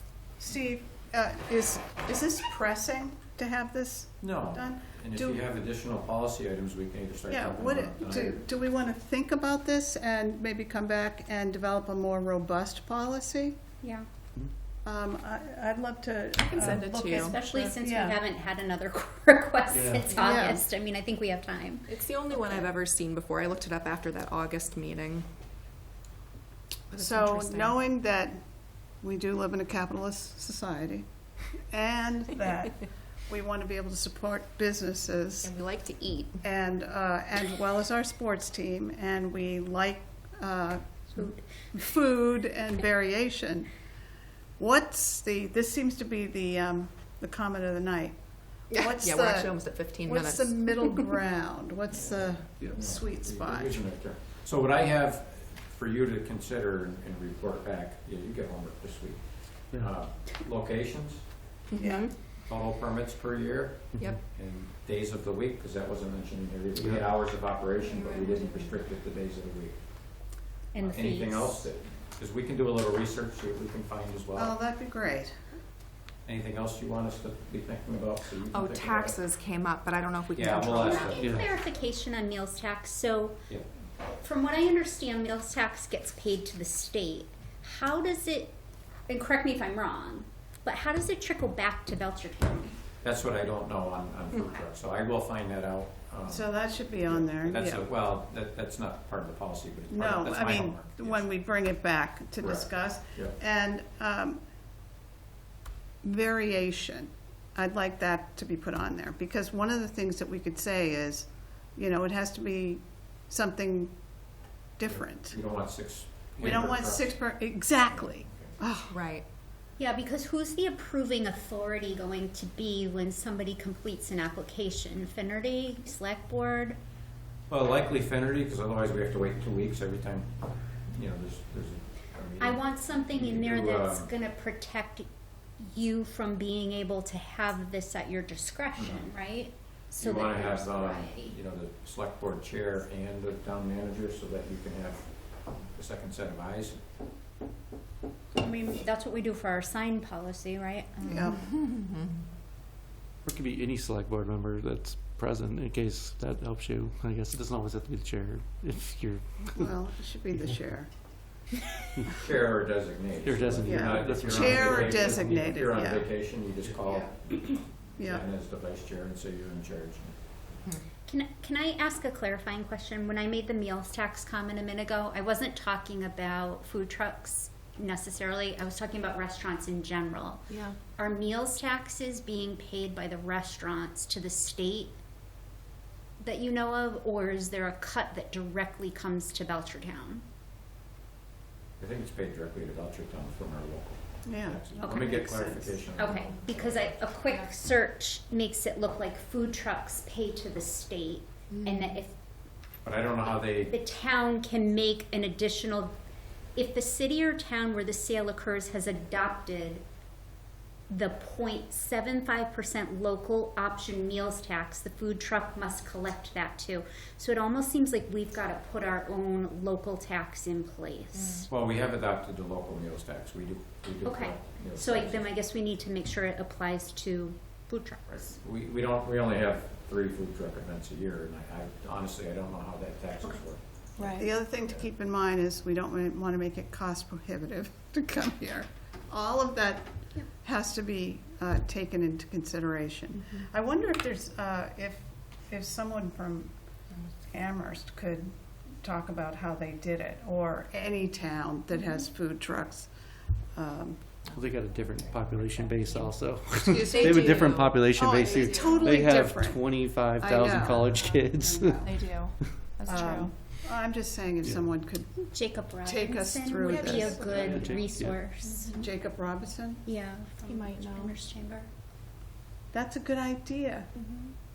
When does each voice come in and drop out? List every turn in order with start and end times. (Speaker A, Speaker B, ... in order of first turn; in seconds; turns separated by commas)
Speaker A: 0.4-5.5, Speaker B: 4.2-8.4, Speaker A: 7.3-13.6, Speaker A: 14.8-18.2, Speaker C: 16.4-17.4, Speaker D: 17.0-22.6, Speaker E: 19.7-20.3, Speaker C: 20.1-20.5, Speaker A: 20.2-20.6, Speaker C: 21.9-25.3, Speaker C: 26.9-27.8, Speaker A: 26.9-28.4, Speaker A: 29.0-31.1, Speaker A: 31.7-35.5, Speaker C: 35.4-36.4, Speaker A: 36.4-43.7, Speaker D: 41.1-41.8, Speaker A: 44.6-53.8, Speaker C: 48.7-51.1, Speaker B: 51.9-61.6, Speaker E: 52.6-52.9, Speaker C: 61.7-62.1, Speaker A: 61.8-62.1, Speaker B: 62.3-74.6, Speaker E: 63.9-64.2, Speaker C: 67.8-68.7, Speaker D: 70.7-71.7, Speaker A: 74.3-75.4, Speaker B: 76.2-79.2, Speaker C: 78.5-81.2, Speaker B: 80.3-81.3, Speaker D: 80.7-83.4, Speaker E: 81.2-81.5, Speaker D: 84.0-88.6, Speaker D: 89.1-92.7, Speaker B: 93.0-101.4, Speaker A: 96.3-97.9, Speaker A: 99.9-104.4, Speaker B: 102.4-103.4, Speaker A: 106.0-113.9, Speaker A: 114.8-115.4, Speaker B: 114.9-118.5, Speaker A: 116.4-118.9, Speaker C: 118.9-119.2, Speaker D: 119.8-126.8, Speaker B: 127.5-134.1, Speaker D: 132.4-135.1, Speaker D: 135.6-141.3, Speaker B: 138.8-139.1, Speaker B: 140.0-146.8, Speaker D: 148.4-151.4, Speaker A: 151.0-151.4, Speaker C: 151.3-152.1, Speaker E: 153.2-159.8, Speaker A: 159.5-160.9, Speaker B: 162.2-170.2, Speaker E: 163.2-165.4, Speaker A: 163.7-166.1, Speaker A: 168.0-168.3, Speaker D: 171.1-185.0, Speaker C: 180.5-180.8, Speaker D: 186.2-190.2, Speaker B: 191.8-197.1, Speaker A: 194.2-195.6, Speaker D: 194.8-202.2, Speaker B: 202.8-203.8, Speaker D: 203.7-205.9, Speaker D: 206.6-209.8, Speaker D: 210.9-221.5, Speaker C: 221.1-221.5, Speaker B: 221.5-225.3, Speaker D: 224.0-228.3, Speaker B: 228.1-234.9, Speaker C: 234.0-234.3, Speaker A: 234.1-246.5, Speaker A: 247.3-252.9, Speaker A: 253.6-254.1, Speaker E: 254.3-262.5, Speaker A: 256.6-257.3, Speaker C: 256.7-258.9, Speaker A: 257.9-262.0, Speaker C: 261.8-263.3, Speaker A: 262.9-265.3, Speaker E: 264.4-264.7, Speaker D: 265.3-268.7, Speaker A: 265.8-267.2, Speaker C: 266.6-267.7, Speaker E: 267.2-268.3, Speaker C: 268.5-268.9, Speaker A: 268.7-269.8, Speaker D: 269.8-271.7, Speaker C: 270.4-271.1, Speaker A: 272.7-273.9